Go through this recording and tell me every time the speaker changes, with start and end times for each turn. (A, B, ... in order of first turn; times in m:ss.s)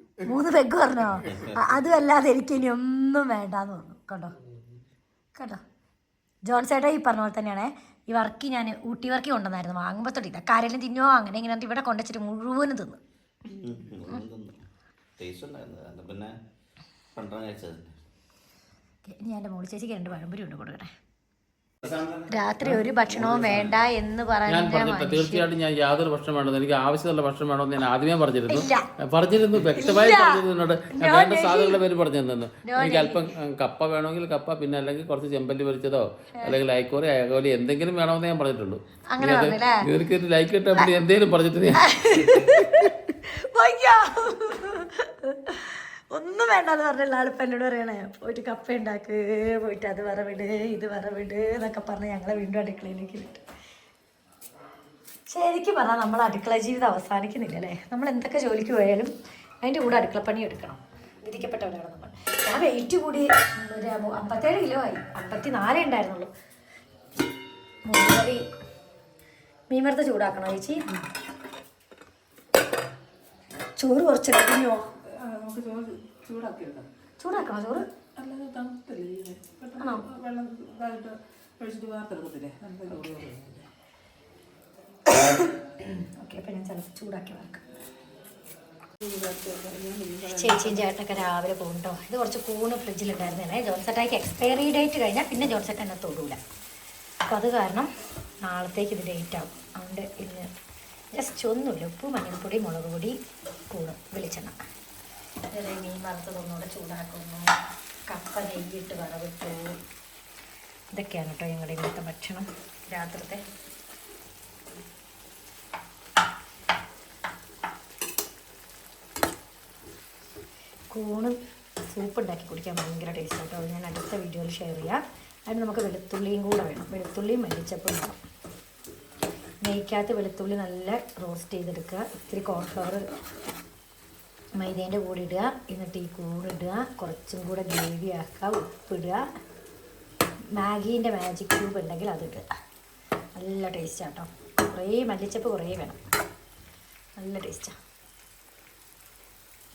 0:00.2-0:04.4 A
0:01.2-0:01.6 B
0:05.4-0:05.6 A
0:06.5-0:13.0 A
0:13.5-0:14.6 B
0:15.2-0:16.4 B
0:17.2-0:18.0 B
0:19.0-0:20.9 A
0:21.8-0:22.3 B
0:22.3-0:25.5 A
0:22.9-0:23.8 B
0:24.5-0:41.9 C
0:28.5-0:28.9 A
0:29.7-0:31.8 A
0:32.6-0:33.3 A
0:39.1-0:39.9 A
0:41.8-0:53.4 A
0:55.3-1:06.3 A
1:07.9-1:08.4 A
1:09.7-1:10.8 A
1:13.8-1:14.8 A
1:15.1-1:16.9 D
1:17.2-1:17.9 A
1:18.2-1:23.7 D
1:19.8-1:20.1 A
1:25.1-1:27.8 A
1:29.0-1:30.8 D
1:30.3-1:36.4 A
1:37.2-1:37.9 A
1:38.4-1:40.5 A
1:41.1-1:43.2 A
1:43.7-1:44.6 A
1:45.5-1:47.5 A
1:48.1-1:49.7 A
1:50.9-1:53.4 A
2:00.9-2:01.4 A
2:01.9-2:08.2 A
2:09.6-2:13.0 A
2:14.6-2:19.2 A
2:20.6-2:22.4 A
2:23.4-2:26.0 A
2:27.2-2:27.8 A